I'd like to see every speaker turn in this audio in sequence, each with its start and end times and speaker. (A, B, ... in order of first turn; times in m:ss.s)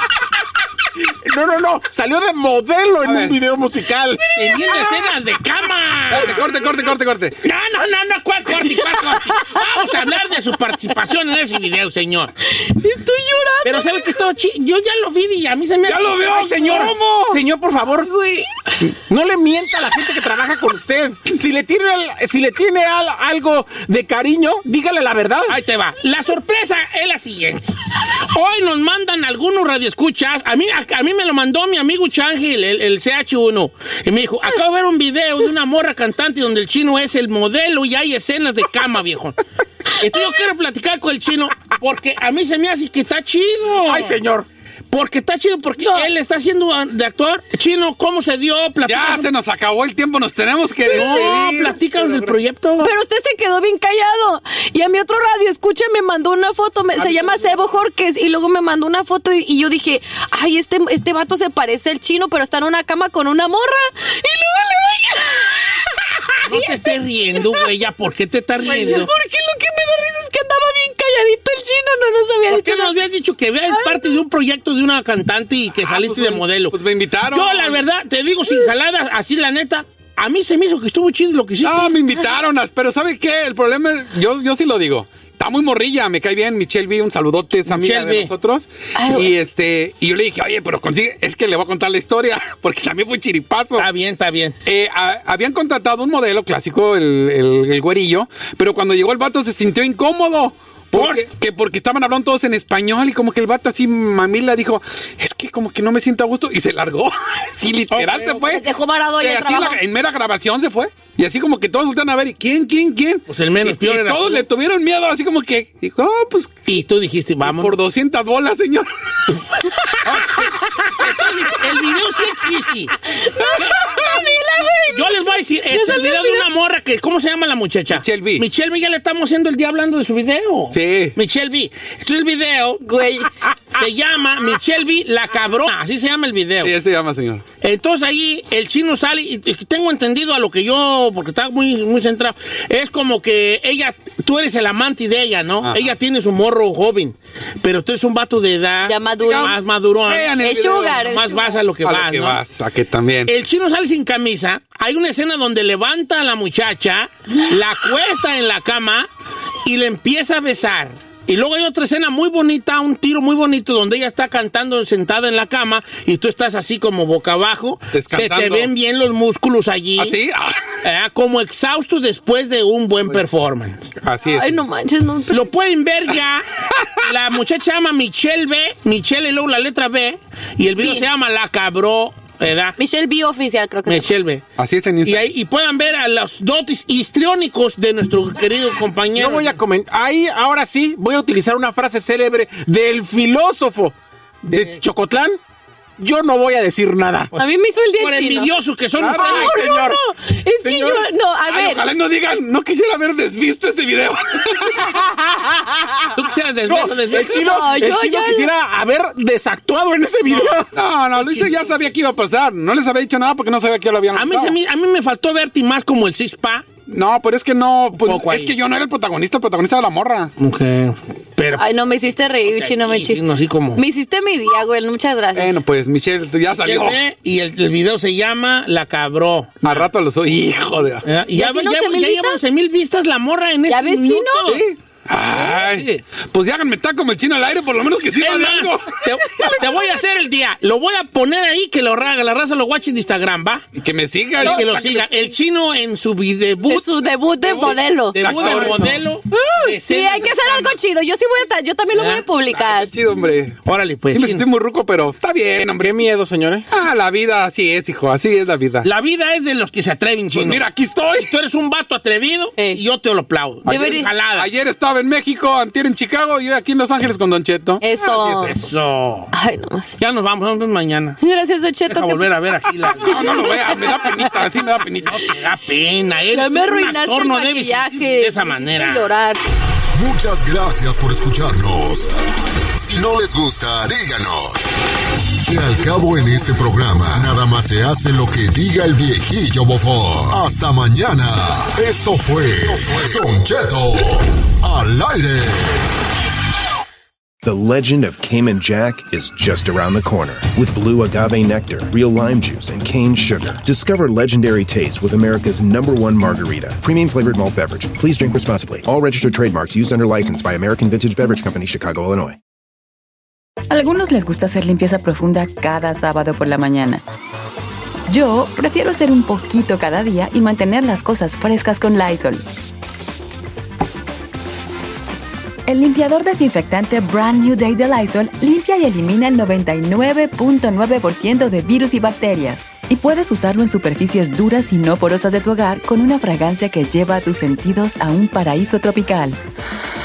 0:01.2-0:04.3 A
0:03.0-0:03.4 B
0:04.3-0:05.2 C
0:04.4-0:06.4 D
0:06.1-0:07.4 B
0:06.4-0:06.9 C
0:07.4-0:12.3 D
0:09.0-0:10.0 C
0:12.5-0:14.2 C
0:13.6-0:16.2 D
0:15.8-0:17.4 B
0:16.3-0:18.1 A
0:16.6-0:16.9 C
0:18.0-0:18.8 C
0:19.0-0:25.6 A
0:25.5-0:39.4 D
0:40.0-0:44.2 D
0:43.8-0:44.5 A
0:44.9-0:49.3 D
0:45.8-0:46.1 C
0:48.8-0:52.4 B
0:50.9-0:52.9 D
0:50.9-0:51.3 C
0:52.8-1:07.7 C
0:57.0-0:57.3 B
1:06.5-1:09.1 D
1:08.7-1:13.0 C
1:12.5-1:16.8 D
1:13.7-1:14.2 C
1:15.9-1:16.4 A
1:15.9-1:17.8 B
1:17.3-1:21.9 D
1:21.6-1:33.9 B
1:27.7-1:28.3 D
1:29.0-1:29.3 C
1:33.8-1:34.6 D
1:34.6-1:48.7 B
1:40.9-1:41.2 D
1:47.9-1:48.4 D
1:48.3-1:49.8 C
1:49.2-1:56.7 B
1:53.3-1:54.4 D
1:56.7-1:57.8 D
1:57.4-1:58.9 B
2:00.1-2:00.4 B
2:00.9-2:02.9 D
2:03.0-2:06.5 C
2:04.9-2:12.8 D
2:07.9-2:08.4 B
2:10.7-2:11.2 B
2:12.8-2:13.5 C
2:13.8-2:16.7 D
2:16.6-2:17.4 B
2:17.6-2:30.3 D
2:25.6-2:25.9 B
2:28.8-2:29.6 C
2:29.2-2:29.5 B
2:30.1-2:31.2 B
2:30.3-2:31.6 C
2:31.0-2:32.4 D
2:31.8-2:33.3 B
2:33.3-2:39.1 D
2:39.6-2:50.2 D
2:47.9-2:48.7 B
2:50.0-2:50.8 B
2:50.8-2:53.9 D
2:54.0-2:54.6 B
2:54.2-2:55.5 C
2:55.3-2:56.5 D
2:57.0-3:02.8 D
3:00.8-3:01.0 C
3:02.8-3:04.1 C
3:03.9-3:04.4 D
3:04.6-3:05.3 B
3:05.0-3:09.6 D
3:09.2-3:14.0 A
3:14.5-3:15.4 A
3:14.5-3:14.8 D
3:16.0-3:17.3 A
3:17.4-3:18.5 C
3:18.0-3:19.6 D
3:19.0-3:20.0 A
3:19.2-3:21.9 C
3:20.6-3:21.1 A
3:21.5-3:24.9 B
3:26.2-3:27.5 D
3:26.7-3:30.7 A
3:27.2-3:28.5 C
3:30.3-3:30.6 D
3:30.7-3:34.6 B
3:34.2-3:36.7 D
3:36.9-3:40.3 B
3:37.9-3:38.5 D
3:40.4-3:41.8 D
3:41.5-3:45.6 C
3:42.3-3:43.8 D
3:45.4-3:47.0 B
3:46.6-3:49.9 D
3:49.6-3:51.1 B
3:51.0-3:54.6 D
3:51.3-3:52.4 C
3:53.7-3:54.6 C
3:54.5-3:59.0 B
3:55.4-3:56.0 D
3:58.2-4:03.7 D
3:59.4-4:00.0 C
4:03.8-4:04.7 B
4:04.4-4:05.4 C
4:04.4-4:10.8 D
4:06.7-4:08.6 C
4:08.2-4:09.0 A
4:08.3-4:08.8 B
4:09.7-4:12.9 C
4:11.9-4:12.3 D
4:12.4-4:13.6 B
4:13.6-4:14.4 D
4:14.1-4:16.0 B
4:15.8-4:16.7 A
4:16.7-4:18.9 B
4:18.8-4:20.6 D
4:20.3-4:21.3 B
4:21.2-4:24.5 D
4:22.6-4:22.8 C
4:23.7-4:24.2 C
4:24.3-4:28.5 B
4:27.8-4:28.6 C
4:28.4-4:29.3 D
4:29.3-4:29.9 C
4:30.0-4:31.2 D
4:31.2-4:32.3 C
4:31.9-4:33.6 D
4:33.0-4:35.2 B
4:33.3-4:34.4 C
4:35.0-4:39.1 D
4:36.3-4:39.4 C
4:40.0-4:42.1 E
4:42.8-4:44.7 E
4:45.4-4:55.9 E
4:57.4-5:12.4 F
5:13.7-5:17.0 G
5:18.1-5:22.6 G
5:25.7-5:39.4 G